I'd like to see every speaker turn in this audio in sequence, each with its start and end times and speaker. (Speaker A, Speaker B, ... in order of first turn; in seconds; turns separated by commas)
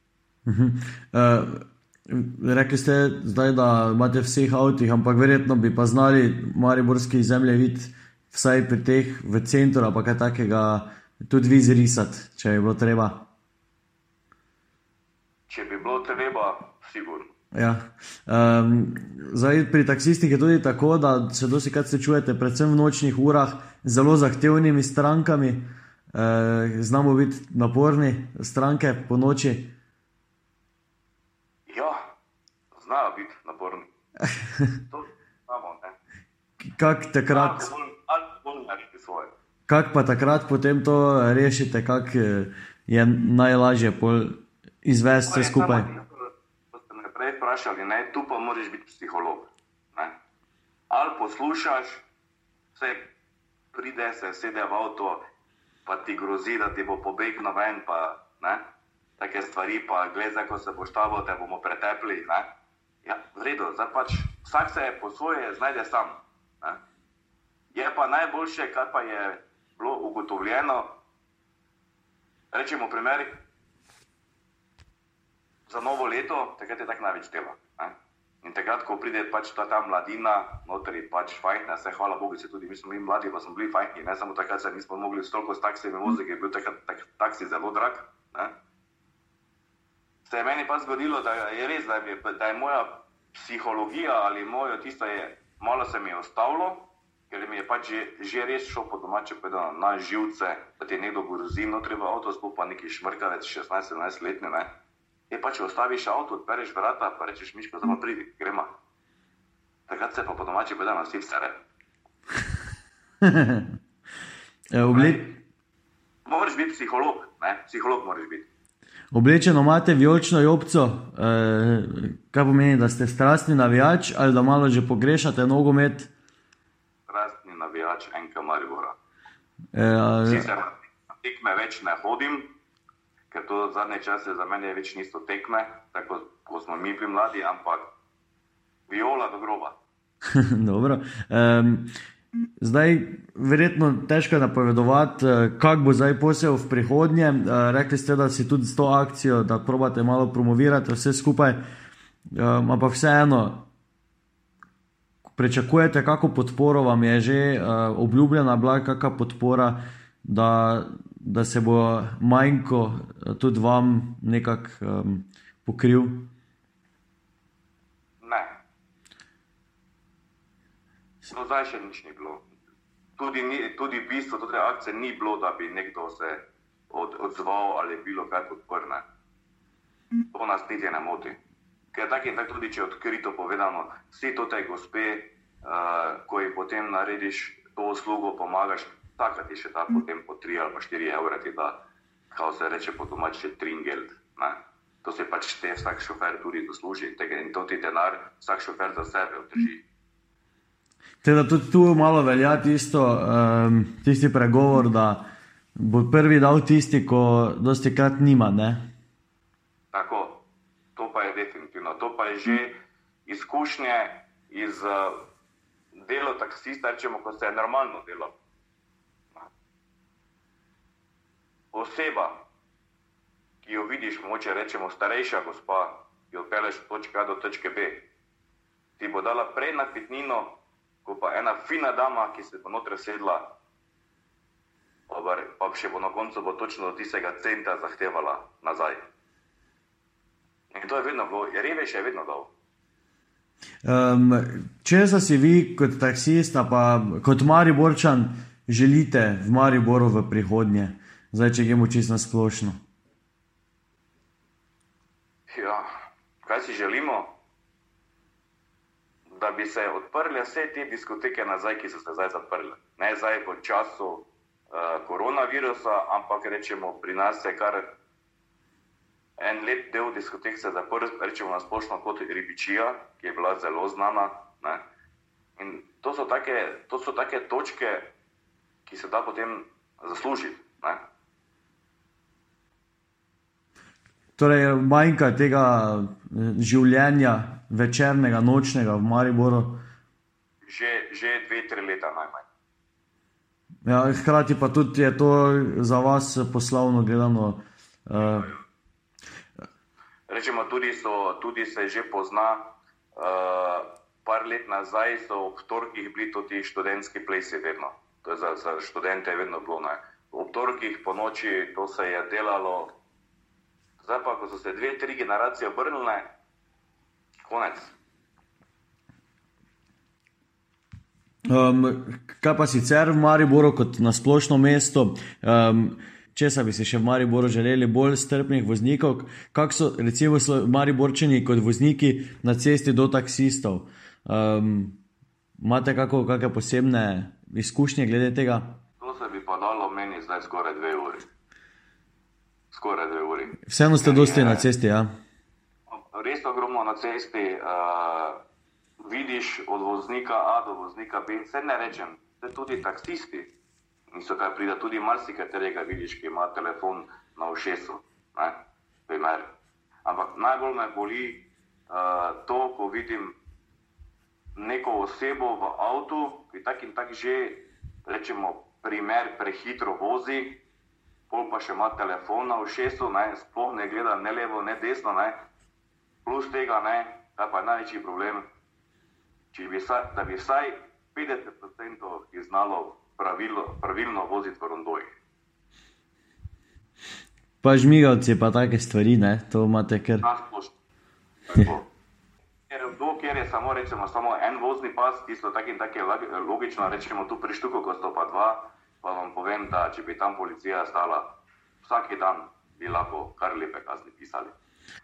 Speaker A: 0.5-13.3, Speaker B: 15.5-17.3, Speaker A: 17.5-29.7, Speaker B: 31.7-32.0, Speaker B: 32.7-33.9, Speaker B: 34.9-36.0, Speaker A: 36.6-37.7, Speaker B: 37.3-39.3, Speaker A: 39.7-45.9, Speaker B: 45.3-50.1, Speaker B: 50.9-52.0, Speaker B: 52.8-53.1, Speaker B: 53.7-55.2, Speaker B: 55.9-58.6, Speaker B: 59.2-62.5, Speaker B: 63.0-66.8, Speaker B: 67.7-70.9, Speaker B: 72.5-73.3, Speaker B: 75.7-88.5, Speaker B: 90.2-104.7, Speaker B: 105.3-108.7, Speaker B: 109.9-111.6, Speaker A: 113.2-113.7, Speaker A: 114.7-115.3, Speaker B: 114.8-115.3, Speaker B: 116.3-118.5, Speaker A: 119.1-126.1, Speaker B: 127.1-128.9, Speaker A: 129.7-130.5, Speaker B: 130.2-132.5, Speaker B: 133.3-137.9, Speaker B: 138.9-139.8, Speaker A: 140.3-141.9, Speaker A: 142.6-151.6, Speaker A: 152.3-153.7, Speaker A: 155.3-166.3, Speaker B: 168.2-168.6, Speaker B: 171.3-172.4, Speaker B: 173.2-179.0, Speaker B: 180.3-181.4, Speaker B: 181.9-191.8, Speaker B: 192.3-199.8, Speaker A: 201.2-205.2, Speaker A: 205.8-208.8, Speaker B: 209.9-210.4, Speaker B: 211.0-212.7, Speaker B: 213.3-215.2, Speaker B: 215.9-218.3, Speaker B: 221.7-222.4, Speaker B: 223.6-228.1, Speaker B: 229.0-233.5, Speaker B: 235.1-239.0, Speaker B: 240.7-242.5, Speaker A: 243.8-252.8, Speaker B: 255.5-255.9, Speaker B: 256.4-257.4, Speaker B: 259.3-267.9, Speaker B: 269.4-274.8, Speaker B: 275.6-278.1, Speaker B: 278.9-281.0, Speaker A: 284.4-289.8, Speaker B: 290.7-292.5, Speaker A: 293.9-298.5, Speaker B: 298.2-298.5, Speaker B: 300.3-312.9, Speaker B: 314.0-316.3, Speaker B: 317.5-317.9, Speaker A: 321.5-335.0, Speaker A: 335.6-338.8, Speaker B: 339.0-341.2, Speaker B: 342.7-344.7, Speaker A: 343.6-345.1, Speaker B: 345.9-348.4, Speaker B: 349.0-353.5, Speaker B: 354.1-358.6, Speaker B: 359.1-359.5, Speaker B: 360.1-363.4, Speaker B: 364.6-370.6, Speaker B: 371.3-375.4, Speaker B: 376.3-378.4, Speaker B: 379.5-385.1, Speaker A: 387.6-390.3, Speaker B: 390.2-390.8, Speaker B: 391.5-391.9, Speaker B: 392.7-401.3, Speaker B: 401.8-404.5